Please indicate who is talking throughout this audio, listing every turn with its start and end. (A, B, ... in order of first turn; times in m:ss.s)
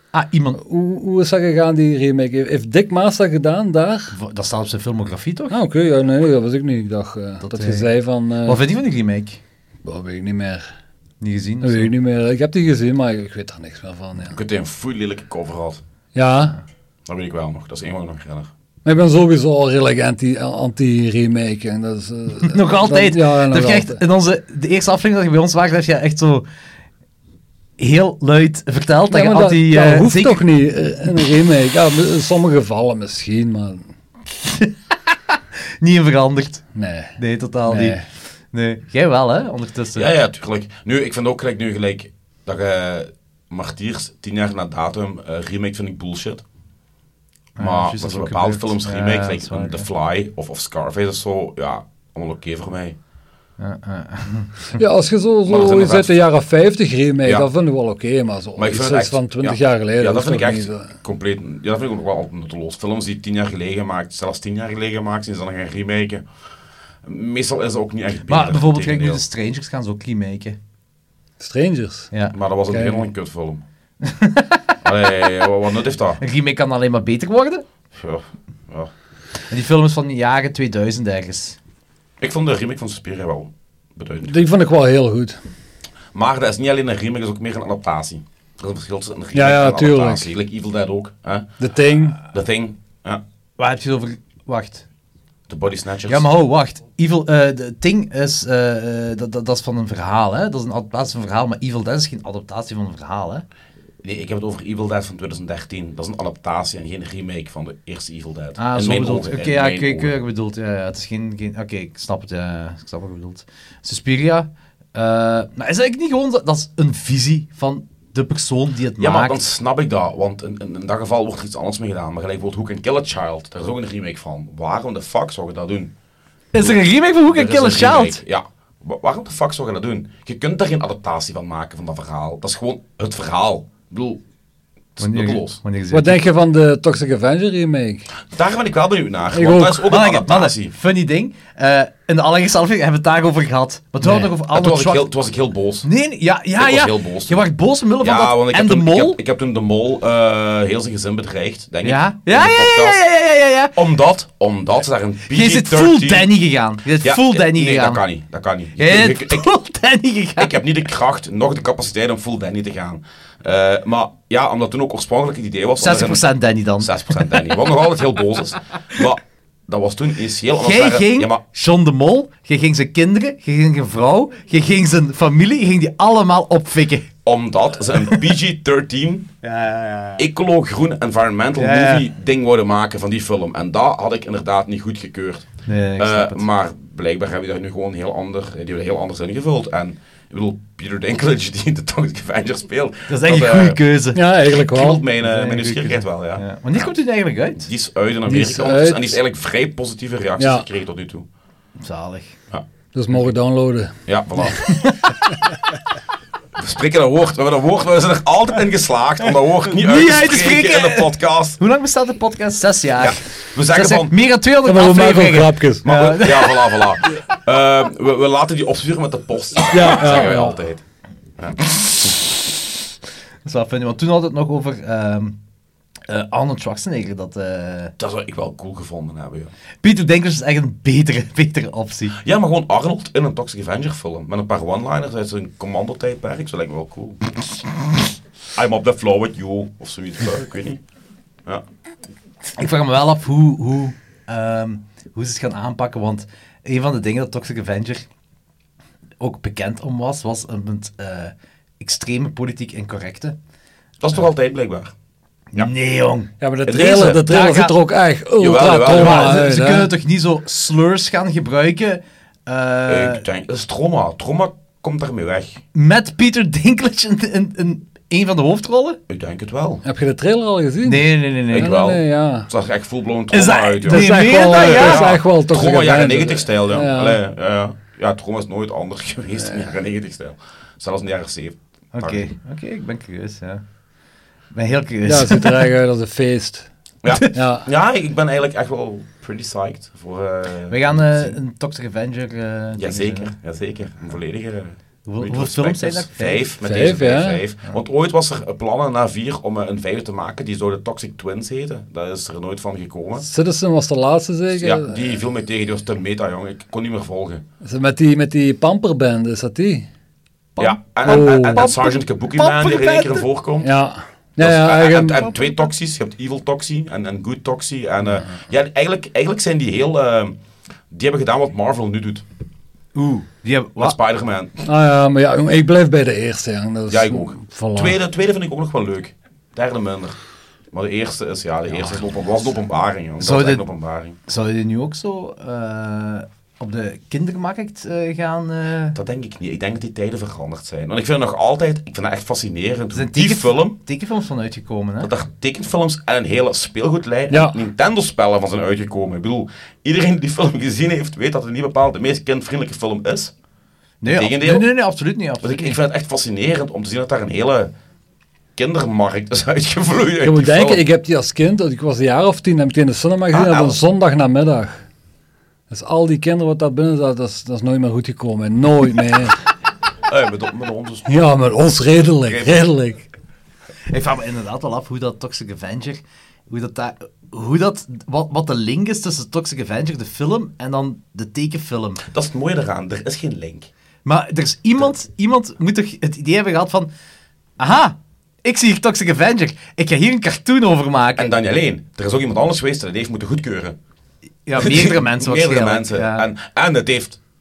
0:00.1-0:00.6 A
0:00.6-0:04.1 B
0:04.1-0:05.6 A
0:05.5-0:08.6 B
0:07.4-0:07.9 A
0:08.4-0:09.4 A
0:09.8-0:10.6 B
0:11.2-0:11.9 A
0:11.6-0:14.4 B
0:14.3-0:15.8 C
0:16.1-0:16.6 B
0:17.0-0:18.5 C
0:18.8-0:24.0 B
0:22.4-0:26.4 A
0:27.8-0:30.4 A
0:29.1-0:33.8 B
0:34.4-0:36.6 A
0:36.7-0:38.0 B
0:37.2-0:40.1 A
0:39.9-0:46.4 C
0:47.6-0:49.8 A
0:47.6-0:53.0 C
0:53.6-0:54.8 A
0:54.8-1:00.9 B
0:55.4-0:56.2 C
0:58.6-1:06.2 C
1:07.0-1:09.2 C
1:08.3-1:10.6 A
1:11.4-1:12.1 B
1:12.3-1:13.6 C
1:12.7-1:13.0 B
1:14.0-1:14.6 A
1:14.8-1:16.2 C
1:16.2-1:17.6 A
1:17.9-1:18.9 C
1:19.5-1:21.6 A
1:22.2-1:24.4 C
1:24.3-1:25.4 B
1:26.1-1:31.5 C
1:29.3-1:30.3 B
1:31.6-1:32.2 B
1:32.2-1:33.2 C
1:33.6-1:34.8 A
1:35.5-1:36.3 C
1:36.1-1:43.4 A
1:44.0-1:50.2 C
1:48.6-1:59.4 A
1:59.0-2:05.9 C
2:06.5-2:08.2 A
2:06.6-2:14.2 C
2:15.0-2:15.6 C
2:15.0-2:16.2 A
2:15.9-2:18.1 B
2:18.3-2:20.7 C
2:19.3-2:19.8 B
2:19.9-2:25.1 A
2:24.4-2:25.9 C
2:25.8-2:29.2 A
2:26.6-2:27.4 C
2:28.0-2:33.0 C
2:31.8-2:33.8 A
2:33.7-2:36.3 C
2:35.3-2:38.0 A
2:37.0-2:39.5 C
2:38.8-2:40.6 A
2:40.4-2:51.4 C
2:45.8-2:47.4 A
2:50.6-2:57.1 A
2:57.2-2:59.3 C
2:59.4-3:00.2 A
3:00.2-3:13.8 C
3:01.6-3:02.1 A
3:05.6-3:06.4 A
3:13.1-3:14.2 A
3:14.1-3:15.0 B
3:14.5-3:16.9 C
3:15.2-3:17.7 A
3:17.6-3:21.3 C
3:18.2-3:19.1 B
3:20.4-3:20.6 B
3:21.8-3:22.4 A
3:22.9-3:23.9 B
3:24.0-3:24.8 C
3:24.5-3:25.2 A
3:26.6-3:31.6 C
3:29.7-3:36.8 A
3:33.0-3:34.1 C
3:34.6-3:35.8 B
3:35.8-3:40.8 C
3:39.7-3:40.6 B
3:41.4-3:42.1 C
3:43.4-3:45.4 A
3:46.1-3:47.9 A
3:48.0-3:49.5 C
3:49.8-3:52.2 A
3:52.1-3:57.2 C
3:58.5-4:00.8 C
4:02.6-4:08.0 A
4:09.2-4:13.4 A
4:14.0-4:14.9 C
4:15.5-4:16.3 A
4:16.4-4:19.9 B
4:16.6-4:17.3 C
4:17.1-4:17.7 A
4:18.4-4:19.4 C
4:18.9-4:23.2 A
4:22.9-4:25.6 C
4:25.7-4:29.0 A
4:29.1-4:29.8 C
4:29.8-4:32.5 B
4:30.8-4:31.7 A
4:31.5-4:42.2 C
4:33.3-4:35.2 A
4:33.8-4:37.2 B
4:41.9-4:43.6 A
4:44.5-4:45.7 A
4:45.0-4:46.7 B
4:47.0-4:51.3 C
4:47.3-4:47.7 B
4:50.7-4:53.3 A
4:52.8-5:03.3 C
4:55.0-4:56.4 A
4:56.6-4:57.4 B
5:03.2-5:05.2 B
5:04.5-5:07.4 C
5:07.6-5:09.9 B
5:10.6-5:13.2 A
5:10.6-5:13.7 C
5:11.0-5:11.7 B
5:13.6-5:15.3 B
5:14.4-5:20.4 C
5:20.9-5:22.2 C
5:22.9-5:24.0 A
5:23.8-5:24.6 C
5:24.6-5:28.0 B
5:26.9-5:30.2 C
5:30.7-5:34.2 C
5:33.2-5:33.6 A
5:34.3-5:39.0 A
5:38.9-5:43.8 C
5:42.9-5:45.1 A
5:45.0-5:53.3 C
5:47.3-5:47.6 B
5:54.0-5:55.8 A
5:54.1-5:54.7 C
5:55.4-5:57.7 C
5:58.6-6:00.8 C
6:00.2-6:04.8 B
6:03.3-6:03.8 C
6:05.7-6:09.4 B
6:10.1-6:11.2 C
6:11.1-6:13.1 B
6:12.2-6:12.6 C
6:13.9-6:22.0 A
6:22.0-6:23.7 C
6:24.0-6:26.9 A
6:27.6-6:31.3 A
6:31.2-6:33.8 C
6:34.4-6:36.3 A
6:34.6-6:37.2 C